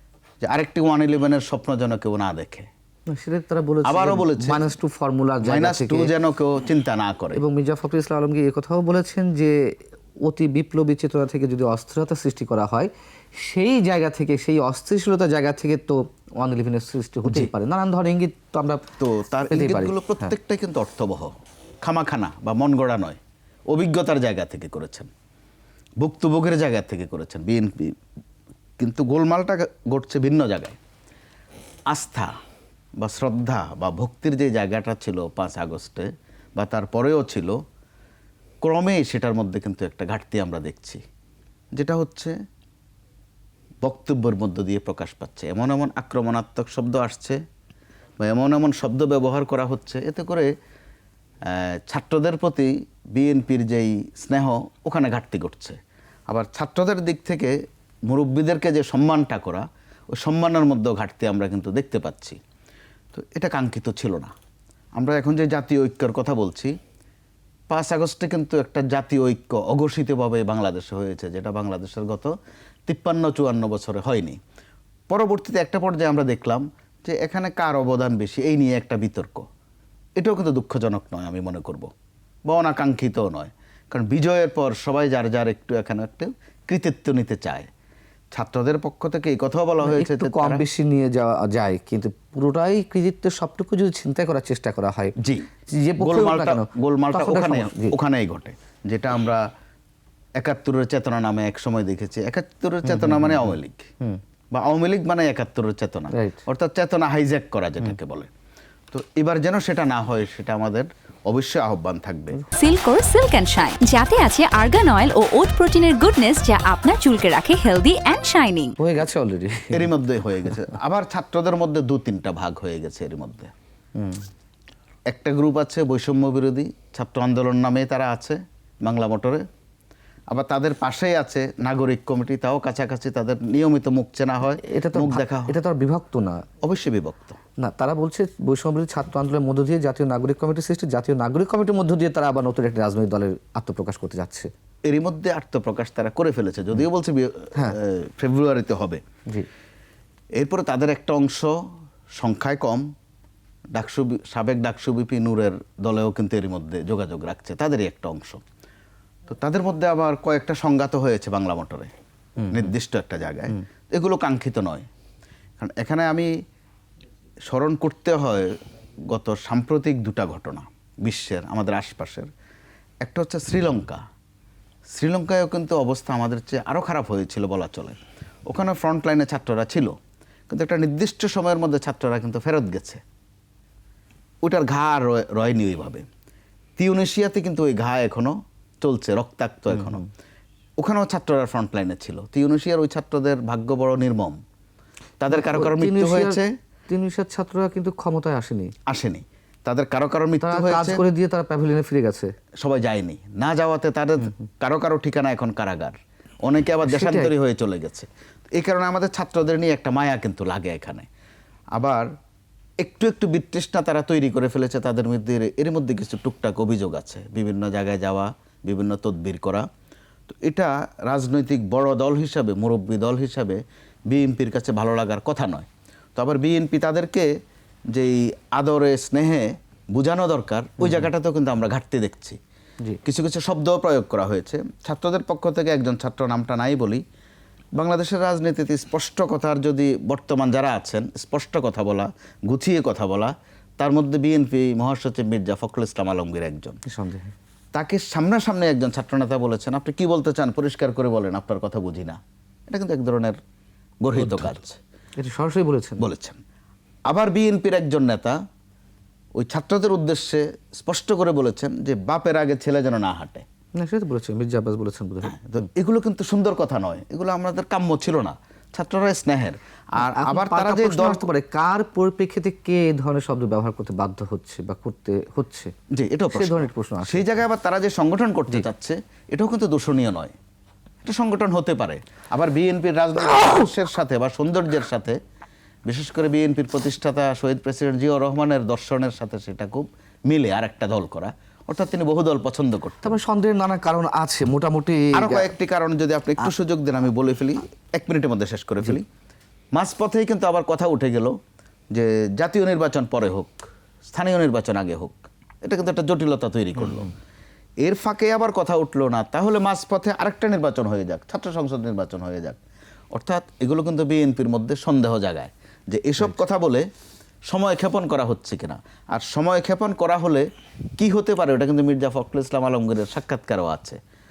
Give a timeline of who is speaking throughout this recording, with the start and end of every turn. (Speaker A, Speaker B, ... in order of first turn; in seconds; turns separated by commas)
Speaker A: 0.4-2.7, Speaker B: 3.1-6.1, Speaker A: 3.8-4.7, Speaker A: 5.4-7.4, Speaker B: 7.3-18.8, Speaker A: 19.0-21.3, Speaker B: 19.4-20.3, Speaker A: 21.8-23.2, Speaker A: 23.7-25.1, Speaker A: 26.0-27.9, Speaker A: 28.8-30.8, Speaker A: 31.9-32.3, Speaker A: 33.0-37.6, Speaker A: 38.6-41.0, Speaker A: 41.8-42.3, Speaker A: 43.8-47.4, Speaker A: 48.2-50.5, Speaker A: 51.5-57.5, Speaker A: 58.1-62.4, Speaker A: 63.1-64.3, Speaker A: 65.0-66.7, Speaker A: 67.7-72.3, Speaker A: 72.9-74.4, Speaker A: 75.1-79.5, Speaker A: 80.2-81.9, Speaker A: 82.5-87.7, Speaker A: 88.3-90.6, Speaker B: 89.8-95.1, Speaker A: 95.2-99.4, Speaker B: 95.7-98.0, Speaker A: 100.4-103.9, Speaker B: 102.8-104.2, Speaker A: 104.5-108.3, Speaker B: 106.1-106.4, Speaker A: 108.9-112.4, Speaker C: 112.5-118.8, Speaker B: 118.8-119.9, Speaker A: 119.7-123.5, Speaker B: 124.0-124.2, Speaker A: 125.1-129.4, Speaker A: 130.3-135.6, Speaker B: 134.6-136.4, Speaker A: 136.6-137.4, Speaker B: 137.6-144.5, Speaker A: 144.9-149.0, Speaker A: 150.3-151.5, Speaker A: 152.2-152.9, Speaker A: 153.7-158.4, Speaker A: 159.3-161.9, Speaker A: 162.5-164.8, Speaker A: 165.6-166.3, Speaker A: 167.5-168.5, Speaker A: 169.1-172.3, Speaker A: 173.0-174.0, Speaker A: 174.9-179.9, Speaker A: 180.5-183.0, Speaker A: 184.4-186.1, Speaker A: 186.8-190.0, Speaker A: 190.8-194.4, Speaker A: 195.2-196.5, Speaker B: 195.3-198.7, Speaker A: 198.9-201.0, Speaker B: 200.4-202.3, Speaker A: 202.6-211.1, Speaker B: 206.8-207.3, Speaker A: 211.8-212.1, Speaker A: 212.8-219.7, Speaker A: 220.3-227.3, Speaker A: 227.9-232.4, Speaker B: 230.8-231.1, Speaker A: 233.0-237.0, Speaker A: 237.7-246.8, Speaker B: 246.8-247.3, Speaker A: 247.7-253.4, Speaker A: 254.0-254.8, Speaker B: 255.2-256.0, Speaker A: 256.0-256.4, Speaker A: 257.1-258.4, Speaker A: 259.4-263.4, Speaker B: 263.8-265.4, Speaker A: 265.2-271.2, Speaker B: 270.0-275.7, Speaker A: 275.9-280.3, Speaker B: 276.3-277.2, Speaker A: 281.0-285.2, Speaker A: 285.9-293.2, Speaker B: 293.0-295.5, Speaker A: 295.1-299.1, Speaker A: 299.7-301.4, Speaker A: 301.9-307.1, Speaker A: 307.8-312.6, Speaker A: 313.1-316.9, Speaker A: 317.5-324.0